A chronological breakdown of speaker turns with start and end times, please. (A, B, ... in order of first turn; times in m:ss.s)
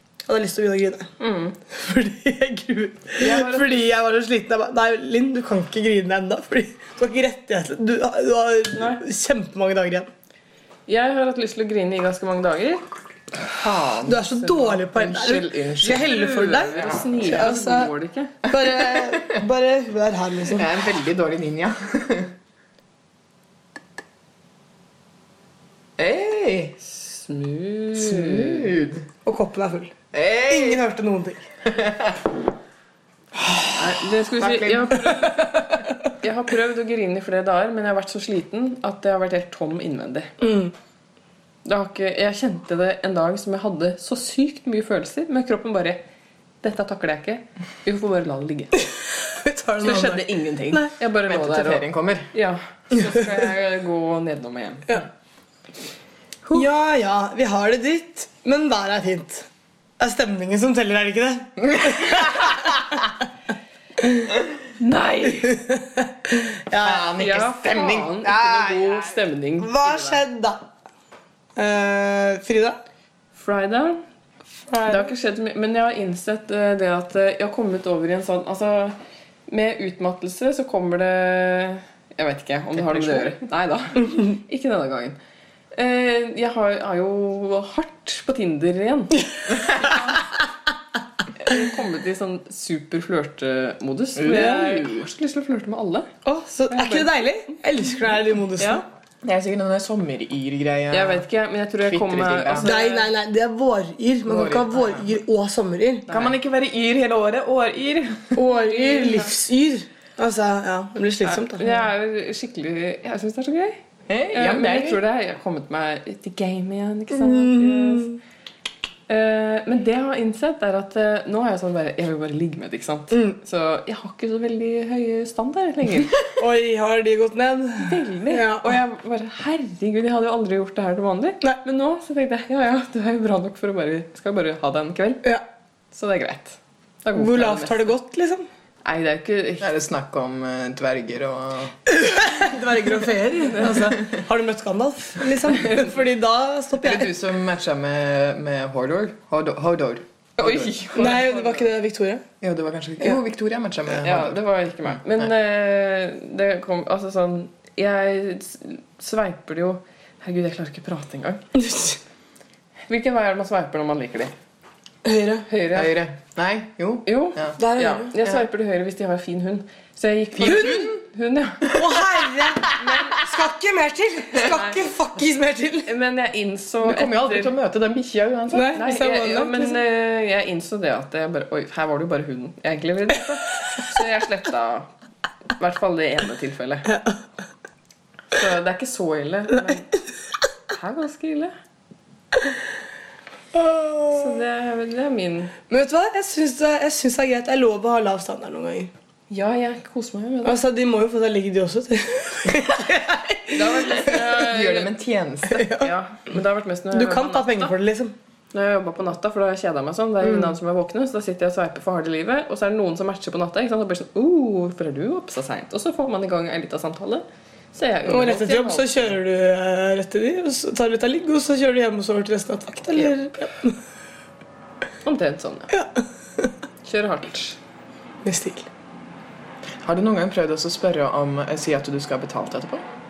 0:00.3-0:01.1 A
0:01.2-0:01.6 B
0:01.7-0:10.1 A
0:03.2-0:03.8 B
0:08.8-0:09.0 B
0:10.9-0:12.8 B
0:13.8-0:14.8 B
0:14.0-0:20.7 A
0:14.9-0:16.2 C
0:16.0-0:18.4 B
0:16.7-0:17.0 C
0:18.9-0:19.3 C
0:20.5-0:22.3 C
0:26.0-0:26.8 C
0:26.9-0:28.7 B
0:28.0-0:29.0 C
0:29.2-0:29.9 A
0:30.1-0:30.8 C
0:30.5-0:31.5 A
0:31.7-0:32.2 C
0:33.7-0:40.3 B
0:34.4-0:35.4 C
0:35.4-0:35.8 A
0:40.4-0:40.7 A
0:41.6-0:46.0 B
0:46.6-0:48.8 B
0:48.8-0:50.9 A
0:49.8-0:55.0 B
0:51.3-0:52.3 C
0:56.5-0:59.5 A
1:00.0-1:02.8 A
1:01.6-1:03.0 C
1:04.0-1:04.3 A
1:04.8-1:05.6 B
1:05.3-1:07.1 A
1:06.8-1:09.2 C
1:07.2-1:10.2 B
1:09.6-1:10.6 A
1:11.6-1:12.8 A
1:13.4-1:14.0 B
1:14.7-1:15.1 A
1:14.8-1:19.0 B
1:19.5-1:25.2 B
1:22.8-1:23.3 C
1:25.8-1:30.2 B
1:29.6-1:29.8 C
1:31.4-1:36.1 B
1:34.2-1:34.8 C
1:34.3-1:34.6 A
1:36.2-1:38.8 A
1:36.7-1:37.1 B
1:38.6-1:38.8 B
1:39.2-1:41.2 C
1:40.9-1:43.1 B
1:41.8-1:42.7 C
1:42.6-1:46.1 A
1:44.3-1:45.1 C
1:46.1-1:46.3 B
1:46.1-1:48.4 C
1:48.4-1:51.9 A
1:48.6-1:49.3 B
1:51.2-1:53.8 B
1:54.1-1:55.0 C
1:54.3-1:58.1 B
1:57.1-1:58.2 A
1:59.1-2:06.2 B
2:03.1-2:03.4 A
2:06.4-2:08.8 A
2:07.8-2:15.3 B
2:15.9-2:17.9 B
2:17.2-2:18.5 A
2:18.8-2:19.7 B
2:19.6-2:21.8 C
2:21.9-2:27.1 A
2:23.8-2:24.2 C
2:25.5-2:25.9 B
2:26.8-2:31.1 C
2:30.4-2:31.7 B
2:31.0-2:32.2 A
2:32.4-2:35.3 C
2:33.9-2:41.4 B
2:41.6-2:42.0 A
2:42.9-2:44.3 B
2:45.0-2:45.5 A
2:45.5-2:46.0 B
2:45.7-2:47.6 C
2:47.1-2:51.8 B
2:47.6-2:48.1 A
2:50.4-2:51.0 C
2:50.4-2:50.8 A
2:51.6-2:52.8 C
2:51.7-2:55.9 A
2:52.8-2:53.2 B
2:54.4-2:54.9 B
2:55.9-2:57.5 B
2:56.8-2:58.7 C
2:58.5-2:59.8 A
2:58.7-3:04.9 B
3:05.6-3:06.9 B
3:06.9-3:07.2 A
3:08.3-3:09.9 B
3:10.7-3:11.5 B
3:13.5-3:14.4 A
3:14.1-3:15.5 B
3:15.7-3:18.9 A
3:19.3-3:20.6 B
3:20.4-3:24.2 A
3:23.5-3:24.9 B
3:24.2-3:25.7 C
3:25.5-3:25.9 A
3:25.8-3:27.7 B
3:26.9-3:28.2 A
3:28.5-3:39.1 B
3:30.2-3:30.6 A
3:38.0-3:43.8 A
3:45.0-3:45.7 B
3:45.7-3:46.5 A
3:46.8-3:47.6 B
3:48.2-3:48.7 A
3:49.8-3:52.8 C